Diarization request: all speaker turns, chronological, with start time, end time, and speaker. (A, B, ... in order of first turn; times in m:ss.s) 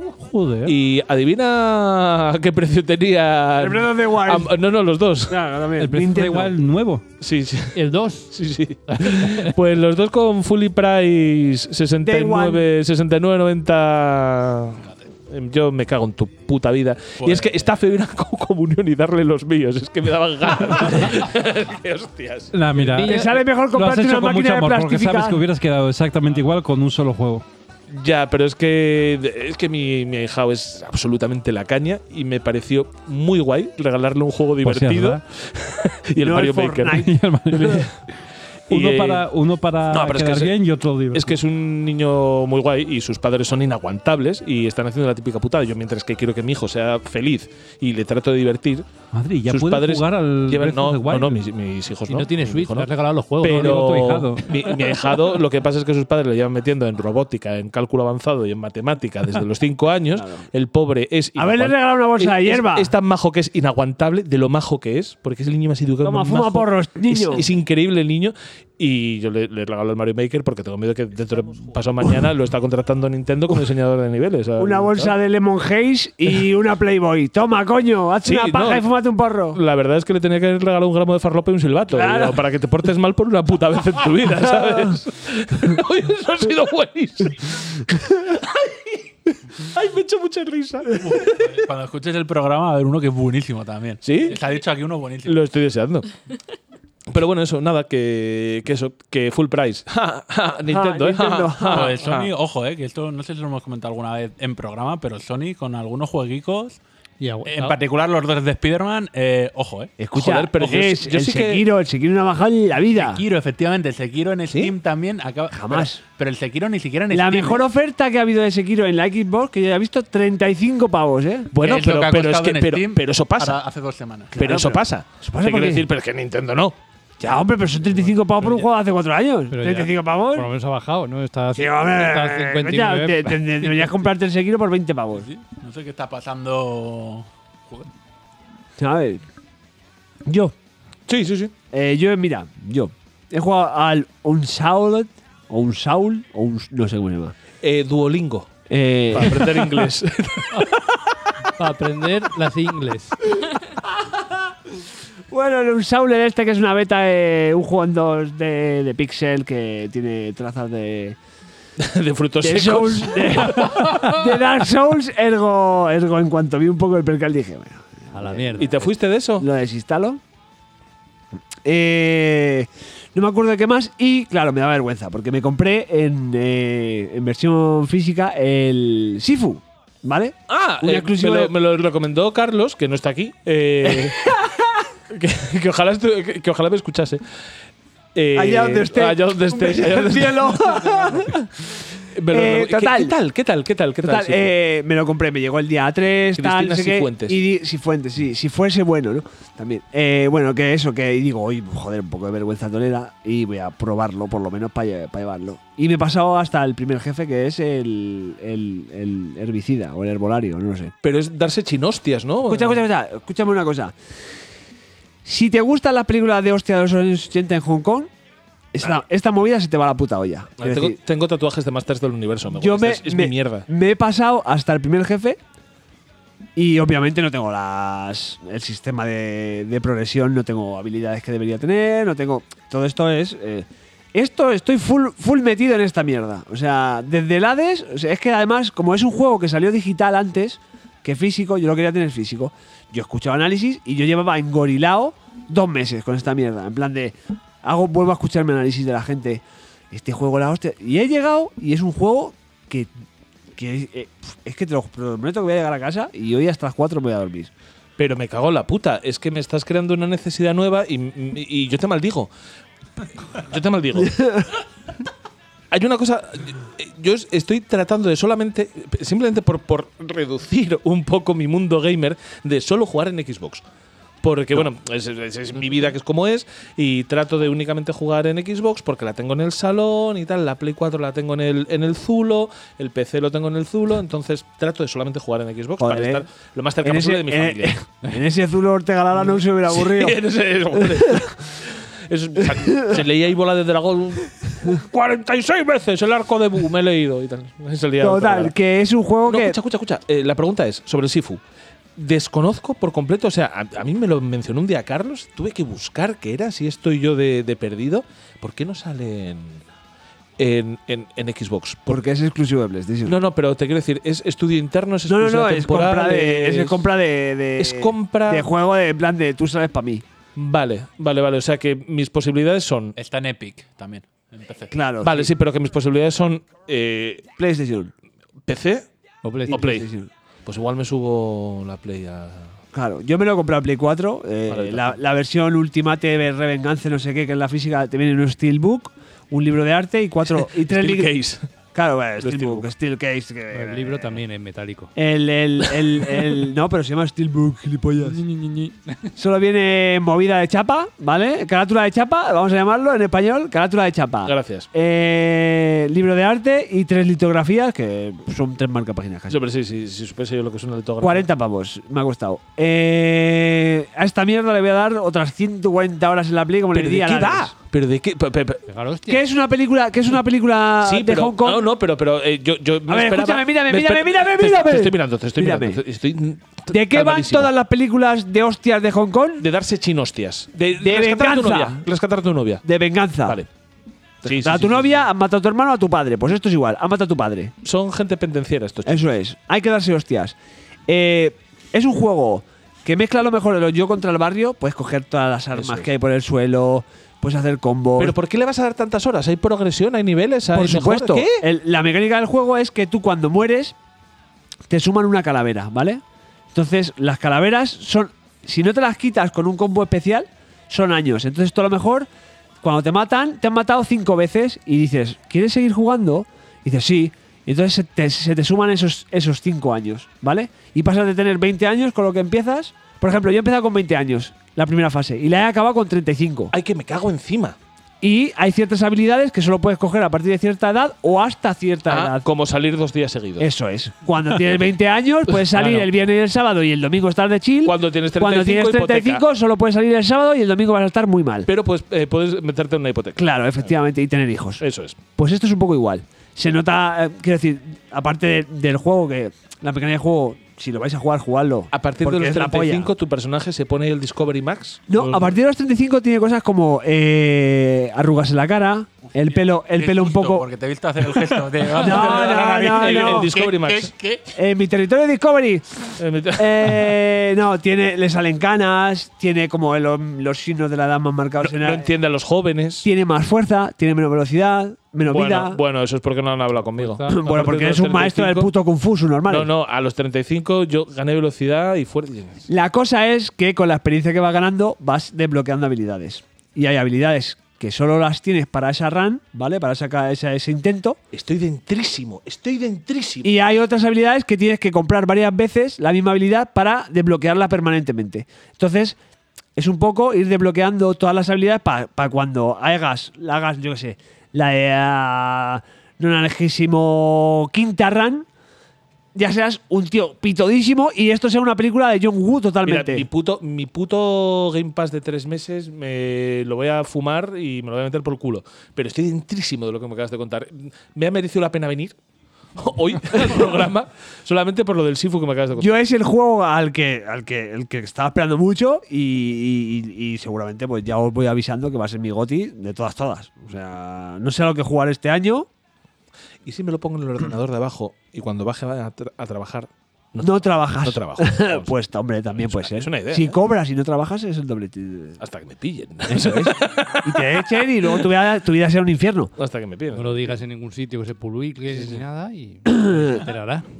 0:00.2-0:00.7 A
0:00.6-0:05.4 B
0:03.6-0:04.5 C
0:05.3-0:06.5 C
0:05.8-0:07.0 A
0:07.2-0:22.5 B
0:07.7-0:08.3 D
0:08.9-0:09.5 D
0:12.0-0:12.6 C
0:17.2-0:17.7 E
0:22.5-0:27.4 A
0:22.8-0:23.4 D
0:23.0-0:25.4 C
0:27.9-0:37.9 B
0:34.6-0:35.2 A
0:36.2-0:37.2 C
0:37.0-0:38.1 A
0:38.7-0:41.4 A
0:38.7-0:39.2 B
0:39.9-0:40.5 B
0:41.1-0:48.9 B
0:49.1-0:51.4 A
0:49.5-1:15.1 B
0:52.1-0:55.2 D
0:53.4-0:54.4 A
1:00.1-1:00.4 C
1:01.4-1:02.9 C
1:06.0-1:07.4 C
1:14.6-1:19.6 C
1:18.2-1:18.9 B
1:19.5-1:31.5 B
1:21.9-1:22.4 C
1:31.0-1:35.4 E
1:34.0-1:34.4 B
1:35.2-1:36.1 B
1:37.1-1:42.3 B
1:40.7-1:41.9 C
1:41.7-1:46.8 E
1:47.2-1:47.8 D
1:47.4-1:49.9 E
1:50.0-1:53.2 C
1:50.1-1:51.6 B
1:52.9-1:57.6 E
1:55.5-1:56.0 C
1:57.1-2:01.5 C
2:01.5-2:03.6 B
2:01.6-2:04.5 E
2:04.3-2:06.8 B
2:04.4-2:05.8 C
2:07.2-2:10.5 C
2:08.4-2:08.6 D
2:09.5-2:14.0 D
2:11.6-2:15.3 C
2:15.2-2:17.9 E
2:18.8-2:19.2 C
2:20.2-2:20.5 C
2:21.1-2:21.5 B
2:21.7-2:27.3 C
2:27.6-2:28.5 B
2:28.7-2:29.8 C
2:29.1-2:30.6 B
2:31.6-2:33.2 D
2:35.3-2:41.2 C
2:41.8-2:44.1 B
2:42.4-2:48.8 C
2:48.1-2:48.8 D
2:48.6-2:49.4 B
2:49.4-2:50.2 C
2:51.6-3:01.5 C
3:00.5-3:04.3 B
3:03.9-3:04.6 C
3:05.1-3:07.2 B
3:08.1-3:10.8 B
3:08.3-3:11.3 C
3:12.1-3:14.5 B
3:12.3-3:13.1 C
3:14.0-3:30.9 C
3:16.4-3:17.4 B
3:31.0-3:32.8 B
3:32.5-3:33.9 C
3:35.2-3:38.1 C
3:38.7-3:41.0 C
3:40.6-3:43.6 B
3:42.5-3:45.4 C
3:46.6-4:12.9 C
4:13.6-4:17.5 C
4:18.0-4:22.3 B
4:23.3-4:24.3 B
4:25.7-4:33.6 B
4:34.2-4:47.8 B
4:45.8-4:46.2 C
4:46.8-4:50.2 C
4:49.7-4:58.5 B
4:58.0-4:59.6 C
4:59.2-5:01.4 B
5:02.0-5:09.6 B
5:10.4-5:12.0 B
5:11.9-5:13.2 C
5:13.0-5:16.9 B
5:15.1-5:20.0 C
5:17.6-5:18.5 B
5:20.4-5:22.9 B
5:22.9-5:24.7 E
5:24.7-5:25.3 C
5:25.0-5:27.3 B
5:27.4-5:27.9 C
5:28.4-5:28.8 B
5:29.2-5:29.6 D
5:29.5-5:29.9 B
5:29.5-5:30.1 C
5:30.4-5:32.5 B
5:32.7-5:41.2 C
5:34.5-5:35.0 B
5:40.3-5:41.5 B
5:41.7-5:44.2 C
5:42.2-5:42.7 B
5:43.5-5:44.9 D
5:44.9-5:48.2 C
5:49.2-5:59.4 C
5:54.2-5:54.7 B
5:59.3-6:01.2 B
6:01.0-6:07.5 C
6:06.7-6:08.6 B
6:08.7-6:09.2 D
6:09.1-6:11.6 C
6:10.8-6:17.5 B
6:12.9-6:15.8 C
6:16.7-6:19.4 C
6:19.4-6:22.6 B
6:20.8-6:21.8 C
6:22.6-6:23.4 C
6:24.2-6:25.0 B
6:24.2-6:27.5 C
6:27.6-6:29.1 B
6:28.8-6:30.3 C
6:30.9-6:38.1 C
6:35.5-6:35.9 B
6:38.0-6:41.4 B
6:40.5-6:43.7 C
6:44.7-6:46.0 C
6:46.5-6:52.1 C
6:52.6-7:06.5 C
7:06.5-7:07.6 B
7:08.0-7:12.2 C
7:11.9-7:13.5 B
7:13.4-7:21.5 C
7:14.4-7:14.6 B
7:15.3-7:15.9 B
7:17.6-7:19.2 B
7:21.5-7:23.7 B
7:23.2-7:32.9 C
7:24.6-7:25.0 B
7:31.7-7:35.4 B
7:34.9-7:40.4 C
7:39.1-7:44.3 E
7:41.7-7:43.9 B
7:41.7-7:43.3 C
7:44.3-7:45.8 C
7:46.0-7:46.9 B
7:46.4-7:51.9 C
7:51.4-7:52.9 B
7:52.8-7:55.6 C
7:55.0-7:58.5 B
7:56.8-7:57.3 D
7:57.1-7:59.5 C
7:59.2-8:02.4 B
8:02.5-8:11.0 C
8:11.1-8:13.3 B
8:13.2-8:19.0 C
8:19.6-8:28.2 C
8:29.1-8:33.0 C
8:32.6-8:41.9 B
8:42.6-8:45.7 B
8:45.6-8:55.5 C
8:56.4-9:01.7 B
9:00.2-9:05.2 C
9:02.4-9:03.4 B
9:05.2-9:08.0 B
9:06.1-9:09.3 C
9:09.4-9:10.4 B
9:09.9-9:13.6 D
9:11.7-9:12.0 B